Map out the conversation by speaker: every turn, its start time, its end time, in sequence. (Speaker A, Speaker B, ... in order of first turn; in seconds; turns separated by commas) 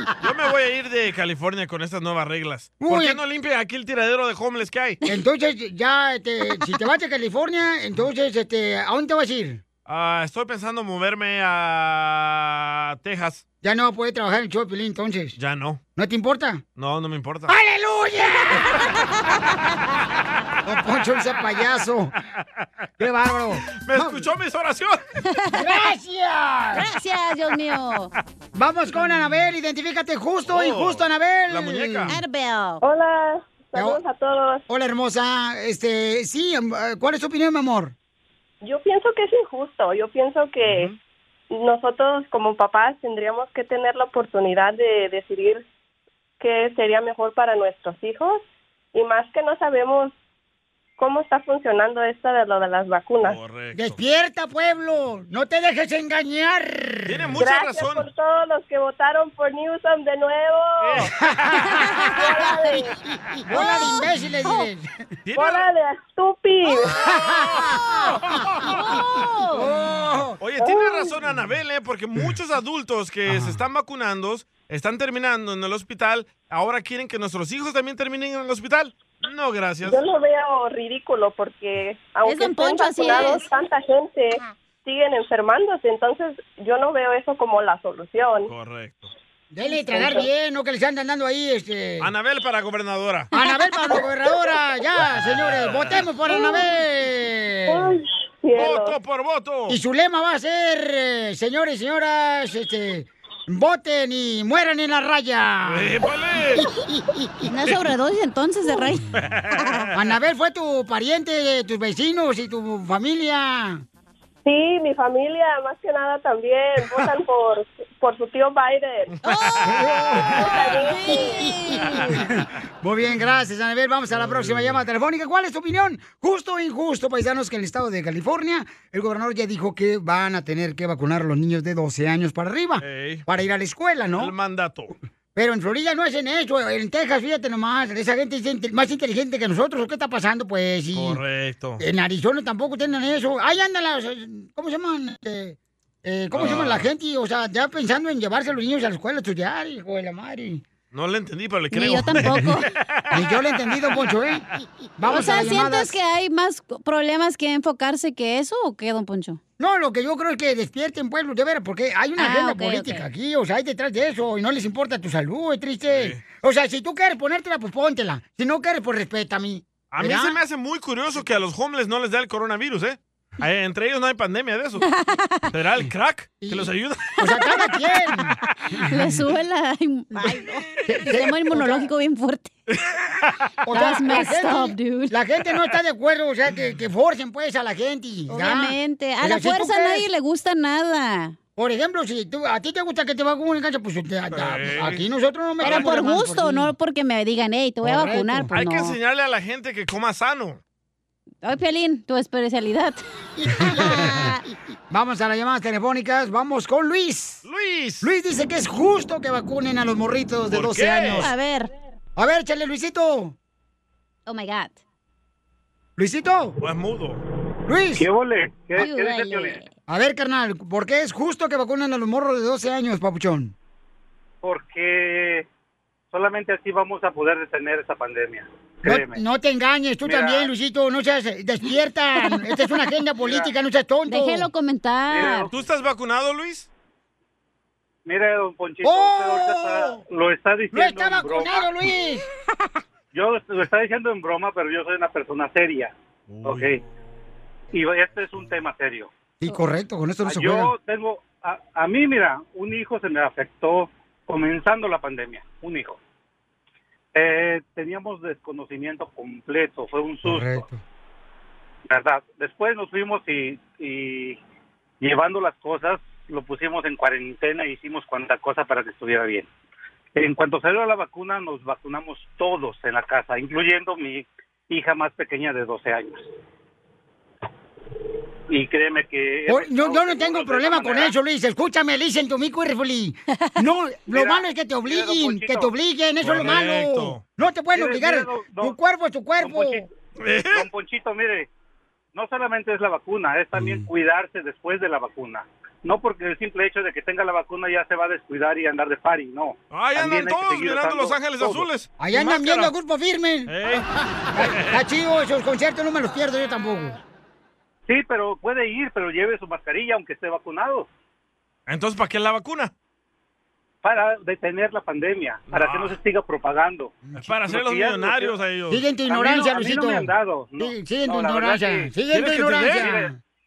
Speaker A: 0.2-5.0, Speaker B: 2.8-3.2, Speaker B: 5.0-9.6, Speaker A: 9.8-13.4, Speaker B: 13.6-15.4, Speaker A: 15.4-15.8, Speaker B: 15.9-16.6, Speaker A: 16.8-17.5, Speaker B: 17.5-18.8, Speaker B: 20.6-22.1, Speaker B: 23.0-24.3, Speaker A: 23.7-25.0, Speaker C: 25.3-25.8, Speaker B: 25.5-26.9, Speaker C: 26.7-28.1, Speaker B: 28.5-32.1, Speaker A: 30.4-32.2, Speaker C: 32.1-32.8, Speaker D: 32.8-34.6, Speaker B: 33.7-34.0, Speaker B: 34.7-37.9, Speaker D: 38.6-40.9, Speaker A: 40.6-41.0, Speaker D: 41.5-45.6, Speaker D: 46.4-48.4, Speaker D: 48.9-50.1, Speaker D: 51.0-53.4, Speaker A: 53.2-54.0, Speaker B: 53.7-57.4, Speaker A: 57.0-58.1, Speaker D: 57.4-61.1, Speaker A: 60.8-62.3, Speaker B: 61.2-61.7, Speaker D: 62.1-62.9, Speaker B: 63.5-65.0, Speaker A: 65.2-65.7, Speaker D: 65.3-66.9, Speaker B: 66.9-68.2, Speaker A: 67.0-67.7, Speaker A: 68.2-68.7, Speaker C: 68.6-69.7, Speaker B: 69.5-70.4, Speaker A: 70.4-80.0, Speaker D: 70.6-71.1, Speaker B: 73.3-73.6, Speaker D: 79.8-88.5, Speaker C: 82.2-83.4, Speaker A: 88.5-89.1, Speaker B: 89.5-92.1, Speaker D: 89.7-90.3, Speaker A: 92.0-93.3, Speaker B: 93.3-97.9, Speaker A: 95.3-96.0, Speaker D: 96.3-96.6, Speaker D: 97.7-98.9, Speaker A: 98.5-99.8, Speaker B: 99.7-105.9, Speaker A: 105.7-106.6, Speaker B: 106.6-107.5, Speaker C: 107.5-109.1, Speaker A: 109.1-109.9, Speaker C: 109.6-109.9, Speaker B: 109.9-113.8, Speaker D: 114.4-119.1, Speaker C: 119.2-119.7, Speaker A: 119.3-120.4, Speaker B: 119.6-120.5, Speaker D: 120.4-121.3, Speaker C: 120.4-122.2, Speaker B: 121.1-121.5, Speaker A: 121.8-122.1, Speaker B: 122.1-134.3, Speaker A: 124.1-124.8, Speaker A: 132.8-133.2, Speaker A: 134.2-134.9, Speaker B: 135.3-141.2, Speaker A: 140.9-141.8, Speaker B: 141.8-150.6, Speaker A: 146.3-146.9, Speaker A: 150.9-153.4, Speaker C: 151.7-152.7, Speaker B: 151.9-152.5, Speaker B: 153.1-154.4, Speaker B: 155.0-155.9, Speaker C: 155.1-159.4, Speaker B: 159.6-170.4, Speaker C: 162.2-163.0, Speaker A: 165.9-166.2, Speaker A: 169.9-174.8, Speaker C: 174.8-175.5, Speaker A: 175.5-177.2, Speaker B: 176.4-179.0, Speaker C: 177.3-178.2, Speaker C: 178.7-182.5, Speaker B: 180.8-181.9, Speaker A: 182.7-183.4, Speaker B: 183.6-190.1, Speaker C: 183.7-185.1, Speaker C: 188.3-191.3, Speaker B: 191.6-196.7, Speaker A: 194.3-195.0, Speaker C: 195.6-199.0, Speaker B: 197.8-198.5, Speaker A: 198.5-200.6, Speaker C: 201.4-204.4, Speaker B: 203.6-204.2, Speaker B: 204.9-207.4, Speaker A: 207.4-208.1, Speaker B: 208.0-211.3, Speaker A: 210.5-211.3, Speaker C: 211.2-211.7, Speaker B: 212.2-213.3, Speaker C: 214.2-214.8, Speaker B: 216.0-216.6, Speaker A: 216.6-217.2, Speaker B: 217.7-218.1, Speaker E: 218.0-219.6, Speaker C: 218.8-219.7, Speaker B: 219.9-223.5, Speaker E: 224.4-225.4, Speaker E: 226.1-229.2, Speaker B: 228.8-234.5, Speaker E: 230.0-230.5, Speaker E: 233.2-233.5, Speaker C: 234.1-235.5, Speaker E: 235.1-235.5, Speaker A: 235.5-236.7, Speaker E: 238.1-241.7, Speaker B: 238.8-240.0, Speaker B: 240.7-242.2, Speaker E: 243.1-246.8, Speaker A: 246.3-246.8, Speaker E: 247.7-249.1, Speaker B: 249.4-250.7, Speaker E: 250.2-256.0, Speaker E: 257.1-260.6, Speaker B: 260.2-260.8, Speaker E: 261.9-264.4, Speaker E: 265.0-269.5, Speaker E: 270.1-276.2, Speaker E: 278.5-281.1, Speaker B: 279.5-289.9, Speaker E: 284.1-285.7, Speaker A: 286.2-287.2, Speaker E: 287.7-288.8, Speaker E: 289.4-289.9, Speaker A: 290.2-290.7, Speaker E: 290.5-291.5, Speaker E: 292.1-301.7, Speaker B: 293.6-293.9, Speaker A: 299.7-302.7, Speaker B: 302.0-303.7, Speaker A: 303.5-303.9, Speaker B: 304.3-307.0, Speaker A: 304.4-304.8, Speaker E: 307.9-310.9, Speaker A: 311.7-312.7, Speaker E: 313.8-318.4, Speaker A: 315.5-316.0, Speaker A: 317.2-318.8, Speaker B: 318.7-323.1, Speaker E: 319.0-321.9, Speaker A: 322.1-322.9, Speaker E: 322.6-323.1